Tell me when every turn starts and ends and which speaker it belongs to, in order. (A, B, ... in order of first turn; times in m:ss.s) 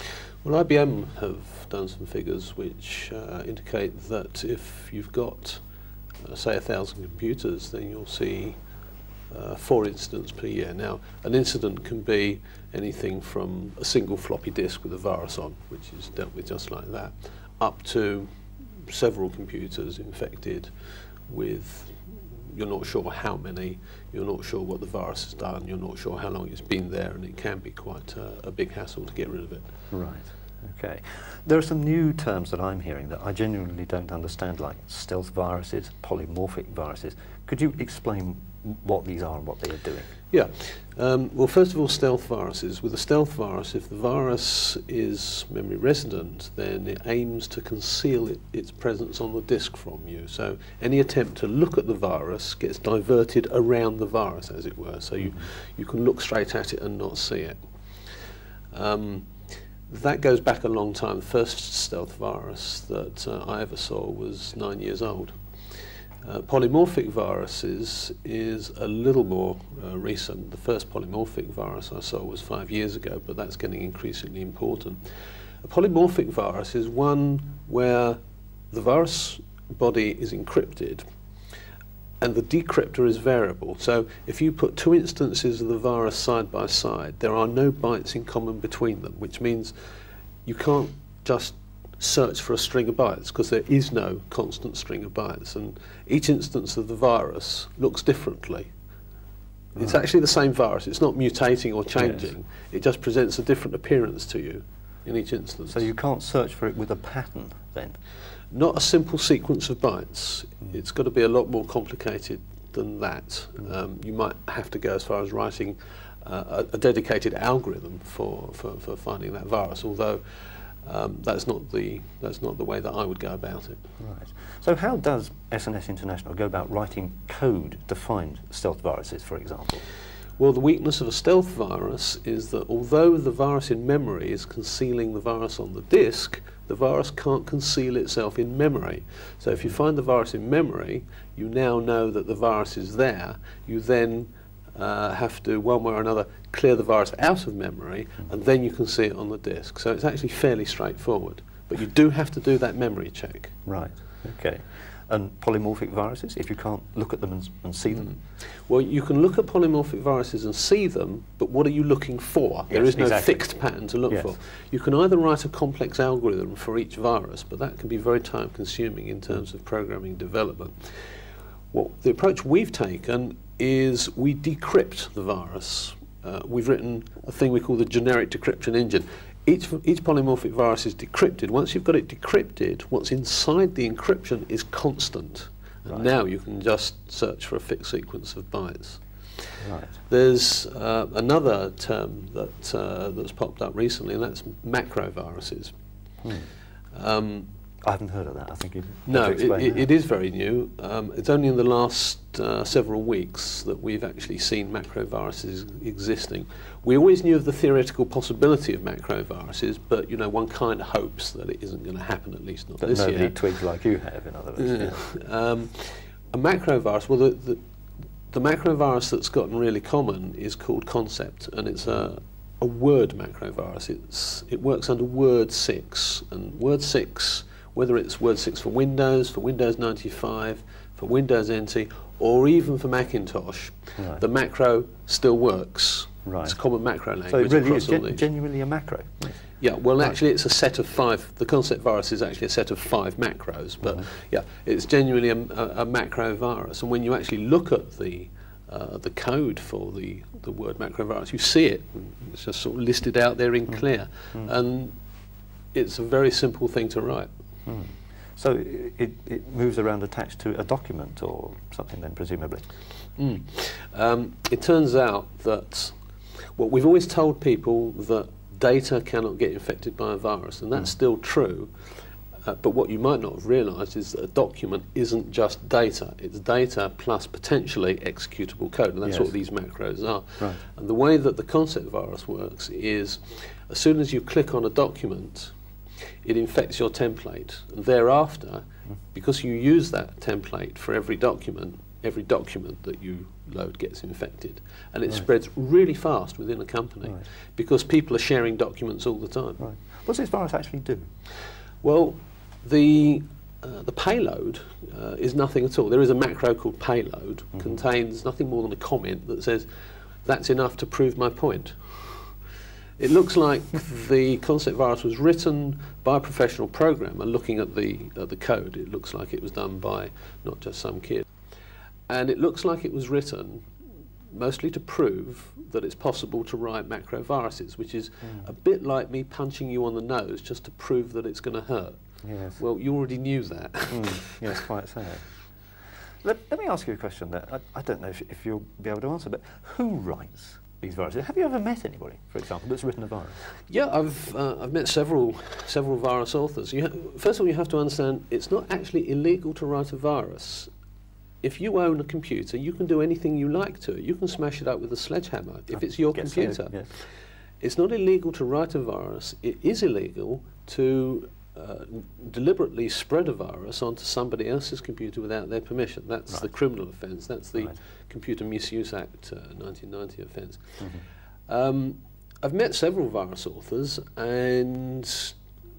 0:00.4-0:05.6 A
0:06.2-0:08.6 A
0:09.3-0:18.3 A
0:18.9-0:20.7 A
0:21.3-0:29.7 A
0:29.9-0:40.1 B
0:40.3-0:57.6 A
0:58.7-0:59.3 A
0:59.9-1:05.3 A
1:06.2-1:15.0 A
1:15.6-1:18.2 A
1:18.7-1:21.0 A
1:22.2-1:29.7 A
1:30.5-1:38.7 A
1:39.7-1:45.9 A
1:42.0-1:42.3 B
1:45.7-1:48.0 B
1:48.5-2:03.8 A
2:04.0-2:09.8 B
2:10.4-2:33.6 A
2:33.7-2:38.1 B
2:37.9-2:50.9 A
2:42.7-2:43.4 B
2:44.1-2:44.4 B
2:51.7-3:15.7 A
3:09.6-3:10.0 B
3:16.2-3:16.5 B
3:16.9-3:17.5 A
3:17.8-3:19.9 B
3:19.1-3:33.4 A
3:32.8-3:35.0 B
3:34.6-3:37.6 A
3:38.3-3:58.2 A
3:54.0-3:54.2 B
3:56.3-3:56.6 B
3:57.3-3:59.4 B
3:59.6-4:15.0 A
4:15.7-4:17.3 A
4:17.7-4:22.7 B
4:23.2-4:26.0 A
4:26.6-4:31.7 A
4:32.4-4:45.5 A
4:39.0-4:39.3 B
4:46.2-4:59.6 A
4:59.6-5:01.1 B
5:01.8-5:09.7 A
5:10.2-5:12.3 A
5:13.0-5:21.2 A
5:22.1-5:23.7 A
5:24.3-5:32.0 A
5:28.2-5:28.5 B
5:32.2-5:32.6 B
5:32.6-5:34.6 A
5:33.9-5:35.3 B
5:36.2-5:43.4 B
5:43.7-5:50.7 A
5:51.4-5:57.1 A
5:55.7-5:56.9 B
5:57.6-6:10.8 A
6:10.8-6:11.0 B
6:11.5-6:15.4 A